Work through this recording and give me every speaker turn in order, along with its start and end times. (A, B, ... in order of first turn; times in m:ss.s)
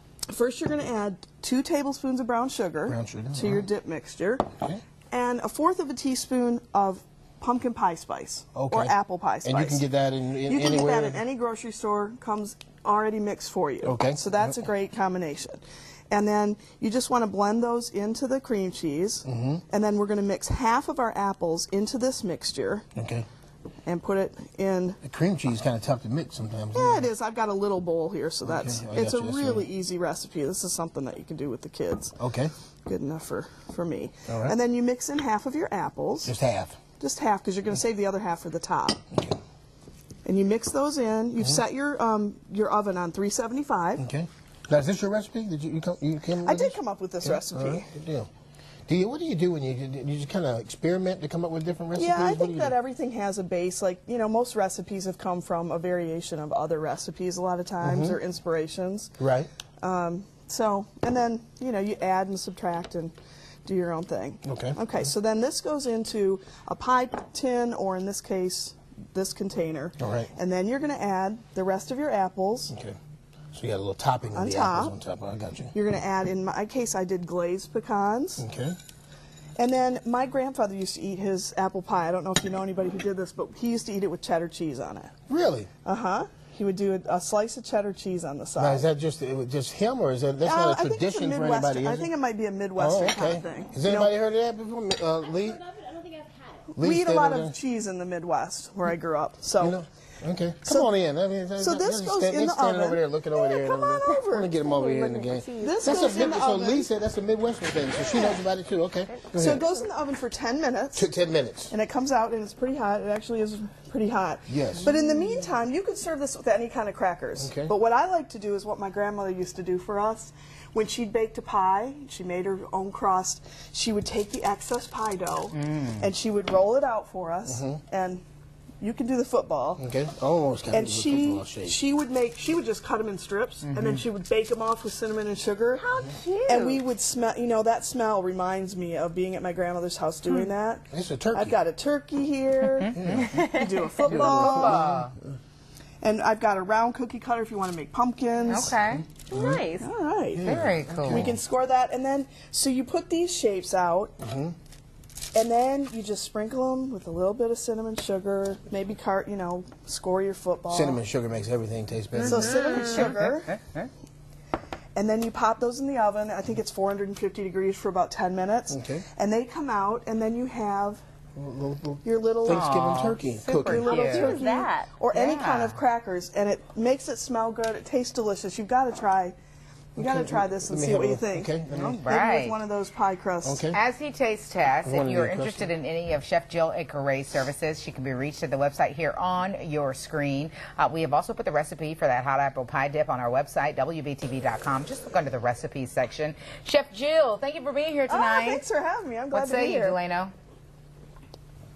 0:00.3-0:04.5 A
0:02.9-0:03.7 B
0:05.1-0:09.8 A
0:08.6-0:08.9 B
0:09.4-0:11.2 B
0:10.5-0:22.9 A
0:13.8-0:14.6 B
0:19.3-0:19.6 B
0:23.0-0:23.3 B
0:23.9-0:25.0 A
0:25.0-0:27.1 B
0:26.7-0:32.2 A
0:28.4-0:29.7 B
0:32.2-0:32.5 B
0:32.9-0:36.3 A
0:34.3-0:34.6 B
0:36.2-0:36.8 B
0:37.0-0:39.0 A
0:39.1-0:39.4 B
0:40.2-0:44.0 A
0:44.0-0:48.3 B
0:46.4-0:47.9 A
0:48.9-0:52.7 B
0:52.0-0:59.1 A
0:57.8-0:58.2 B
0:59.2-0:59.5 B
0:59.8-1:03.1 A
1:03.6-1:12.7 A
1:04.5-1:04.8 B
1:10.0-1:10.3 B
1:12.7-1:13.0 B
1:13.5-1:15.7 B
1:14.3-1:15.0 A
1:15.7-1:18.4 A
1:18.4-1:18.8 B
1:19.6-1:25.1 A
1:25.3-1:25.7 B
1:25.8-1:28.8 A
1:28.6-1:32.1 B
1:30.4-1:34.1 A
1:32.8-1:35.7 B
1:36.7-1:39.8 A
1:36.8-1:37.6 B
1:39.6-1:49.7 B
1:40.6-1:40.9 A
1:41.6-1:44.6 A
1:44.6-1:46.2 C
1:45.6-1:46.9 A
1:49.3-1:51.1 A
1:51.0-1:51.7 B
1:51.7-2:08.2 A
1:54.5-1:54.9 B
1:57.4-1:57.7 B
2:05.5-2:06.1 D
2:07.5-2:07.8 B
2:08.8-2:09.8 A
2:09.8-2:11.8 B
2:10.7-2:15.9 A
2:13.6-2:14.0 D
2:16.0-2:16.8 C
2:16.4-2:24.9 A
2:20.9-2:21.6 B
2:22.6-2:23.3 D
2:23.0-2:23.3 B
2:24.0-2:25.1 D
2:24.1-2:25.1 B
2:26.0-2:28.8 A
2:28.5-2:29.0 D
2:29.3-2:29.9 C
2:29.3-2:29.6 B
2:29.8-2:34.1 A
2:30.4-2:31.4 B
2:30.4-2:31.3 D
2:34.2-2:34.5 B
2:35.3-2:41.0 A
2:40.7-2:42.8 B
2:42.2-2:43.9 D
2:42.2-2:43.6 A
2:45.0-2:51.0 A
2:48.7-2:49.0 B
2:51.4-2:54.0 B
2:52.0-2:52.7 A
2:52.5-2:54.4 D
2:53.6-2:59.4 A
2:53.8-2:54.9 C
2:55.1-2:55.8 D
3:00.0-3:01.5 A
3:00.0-3:02.0 B
3:01.7-3:02.6 D
3:02.0-3:03.7 A
3:03.4-3:03.8 B
3:03.7-3:18.6 D
3:04.8-3:05.7 B
3:18.1-3:20.0 A
3:19.3-3:20.3 D